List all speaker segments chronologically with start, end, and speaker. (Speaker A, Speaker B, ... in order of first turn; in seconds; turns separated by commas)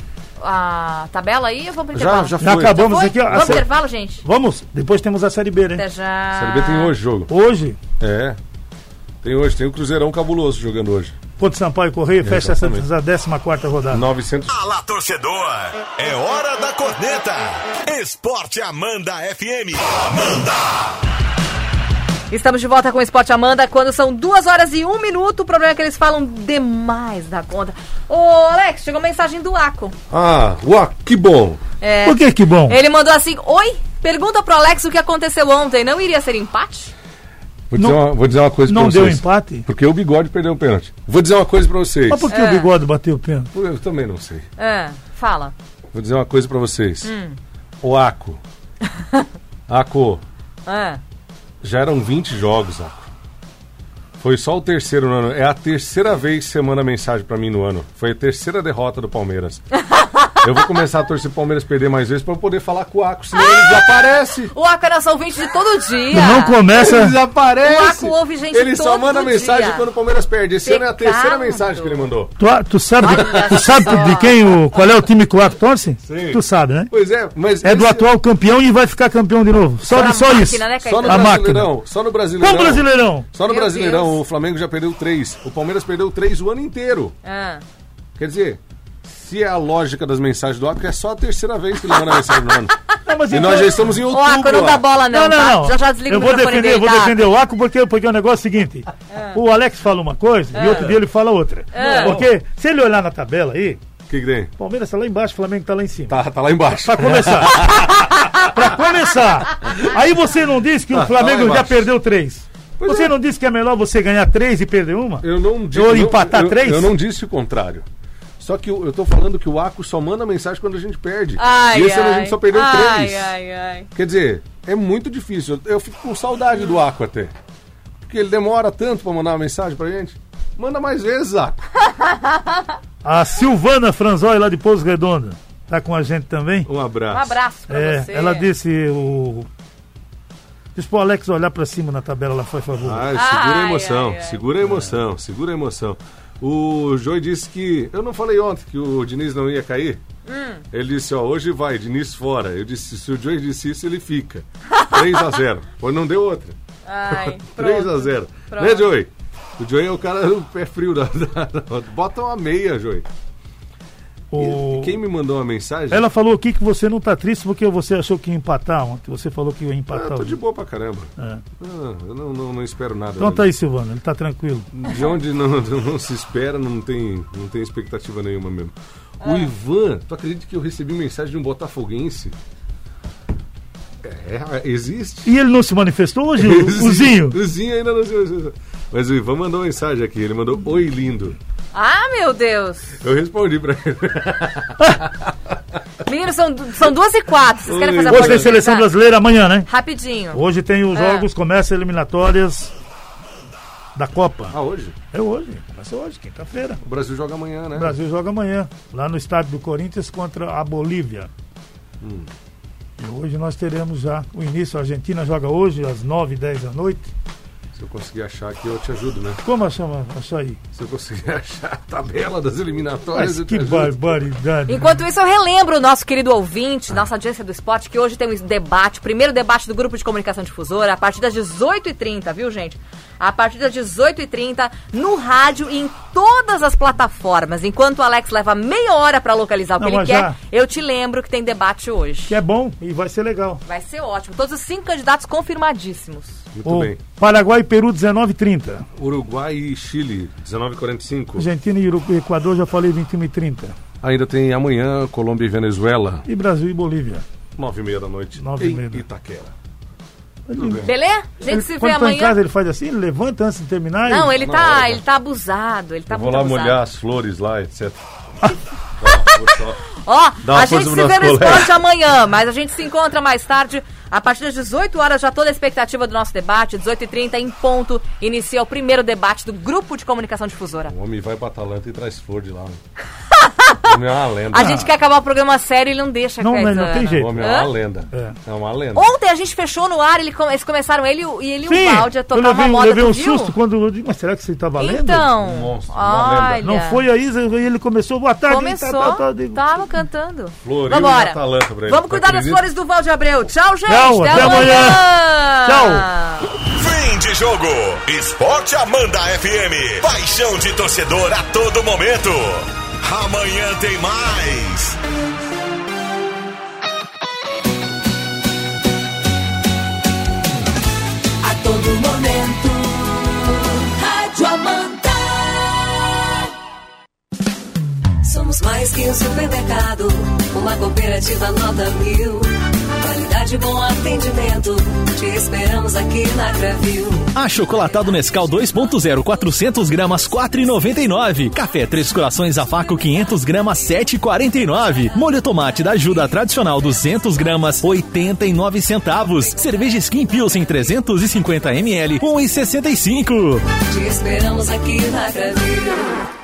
Speaker A: 0.4-4.2, Speaker B: 1.9-3.6, Speaker C: 2.4-3.7, Speaker C: 4.2-5.8, Speaker A: 5.7-6.9, Speaker B: 6.3-7.3, Speaker C: 7.3-7.8, Speaker B: 8.0-8.4, Speaker B: 9.2-11.2, Speaker C: 11.4-14.0, Speaker B: 12.2-12.9, Speaker B: 13.9-14.6, Speaker D: 14.5-21.0, Speaker A: 22.3-29.9, Speaker B: 30.1-31.6, Speaker A: 31.8-36.9, Speaker C: 32.0-32.8, Speaker B: 37.7-42.3, Speaker C: 37.8-38.0, Speaker C: 38.7-39.7, Speaker C: 42.1-43.5, Speaker A: 42.3-42.7, Speaker B: 43.5-44.5, Speaker A: 44.6-45.5, Speaker B: 45.9-47.1, Speaker A: 47.0-47.4, Speaker B: 47.8-48.4, Speaker A: 49.0-49.3, Speaker B: 49.7-50.2, Speaker A: 50.7-51.0, Speaker B: 51.6-53.1, Speaker B: 54.2-59.6, Speaker A: 59.8-60.4, Speaker B: 60.4-64.5, Speaker A: 63.4-64.0, Speaker A: 64.5-66.6, Speaker C: 66.1-67.2, Speaker B: 66.7-72.3, Speaker A: 67.6-69.8, Speaker A: 70.6-72.1, Speaker C: 72.4-76.9, Speaker A: 73.0-74.4, Speaker B: 73.1-73.8, Speaker B: 76.1-78.1, Speaker C: 77.6-81.7, Speaker A: 79.9-81.3, Speaker B: 80.8-87.2, Speaker C: 82.4-83.2, Speaker A: 83.4-84.2, Speaker A: 87.2-87.6, Speaker B: 88.2-94.9, Speaker C: 93.1-94.0, Speaker A: 94.0-97.2, Speaker C: 95.1-103.8, Speaker A: 99.1-99.4, Speaker A: 100.5-101.0, Speaker B: 100.6-100.9, Speaker A: 101.7-102.2, Speaker B: 101.8-102.3, Speaker B: 104.1-104.5, Speaker C: 104.6-106.2, Speaker B: 106.1-108.2, Speaker C: 106.8-116.9, Speaker B: 110.9-111.9, Speaker B: 112.8-113.1, Speaker B: 115.2-117.8, Speaker B: 118.4-123.3, Speaker A: 121.4-123.9, Speaker B: 124.0-127.3, Speaker B: 128.1-131.7, Speaker A: 131.9-132.7, Speaker C: 133.0-136.7, Speaker B: 136.7-137.3, Speaker A: 137.1-138.5, Speaker C: 137.7-139.5, Speaker C: 140.8-143.1, Speaker B: 142.8-150.0, Speaker A: 143.1-144.4, Speaker C: 144.6-144.9, Speaker A: 150.3-150.6, Speaker B: 150.7-156.6, Speaker A: 156.9-158.9, Speaker B: 157.1-163.1, Speaker C: 164.3-165.0, Speaker B: 164.4-166.1, Speaker C: 165.9-170.4, Speaker B: 169.9-173.5, Speaker C: 173.2-174.7, Speaker B: 174.7-182.3, Speaker A: 179.2-179.5, Speaker B: 184.0-185.3, Speaker C: 185.3-187.4, Speaker B: 186.4-191.4, Speaker A: 191.7-193.0, Speaker B: 193.0-195.3, Speaker A: 196.0-198.9, Speaker B: 197.7-198.5, Speaker C: 198.1-199.7, Speaker A: 199.7-201.3, Speaker C: 200.3-202.7, Speaker C: 204.0-204.6, Speaker B: 204.5-204.9, Speaker C: 205.1-206.8, Speaker B: 206.8-208.0, Speaker C: 207.8-211.3, Speaker B: 212.0-212.3, Speaker C: 213.0-217.1, Speaker B: 217.8-219.4, Speaker C: 219.4-220.6, Speaker B: 220.7-224.2, Speaker C: 223.1-225.0, Speaker A: 224.7-242.4, Speaker C: 239.8-240.3, Speaker C: 242.3-243.6, Speaker A: 243.7-246.4, Speaker B: 246.5-247.0, Speaker C: 246.7-248.8, Speaker B: 249.0-251.5, Speaker C: 251.4-253.8, Speaker B: 254.0-256.3, Speaker C: 256.3-257.2, Speaker B: 257.6-259.5, Speaker C: 258.4-259.0, Speaker C: 260.5-260.8, Speaker B: 260.5-260.9, Speaker A: 260.8-262.4, Speaker C: 261.5-264.3, Speaker A: 264.1-266.8, Speaker B: 264.3-265.0, Speaker B: 266.1-268.5, Speaker B: 269.0-269.8, Speaker A: 269.0-280.9, Speaker B: 270.4-271.7, Speaker B: 280.9-282.8, Speaker A: 283.3-284.0, Speaker B: 283.8-284.8, Speaker A: 284.5-287.7, Speaker C: 284.6-284.9, Speaker C: 286.4-287.5, Speaker B: 287.1-289.1, Speaker A: 288.9-293.6, Speaker C: 291.7-295.3, Speaker A: 294.8-297.0, Speaker B: 295.3-296.6, Speaker C: 296.6-299.9, Speaker A: 298.5-306.5, Speaker B: 300.6-302.6, Speaker C: 303.9-305.1, Speaker C: 305.7-306.1, Speaker D: 306.5-315.0, Speaker E: 321.4-326.4, Speaker E: 328.2-337.3, Speaker F: 337.3-353.7, Speaker E: 353.8-356.2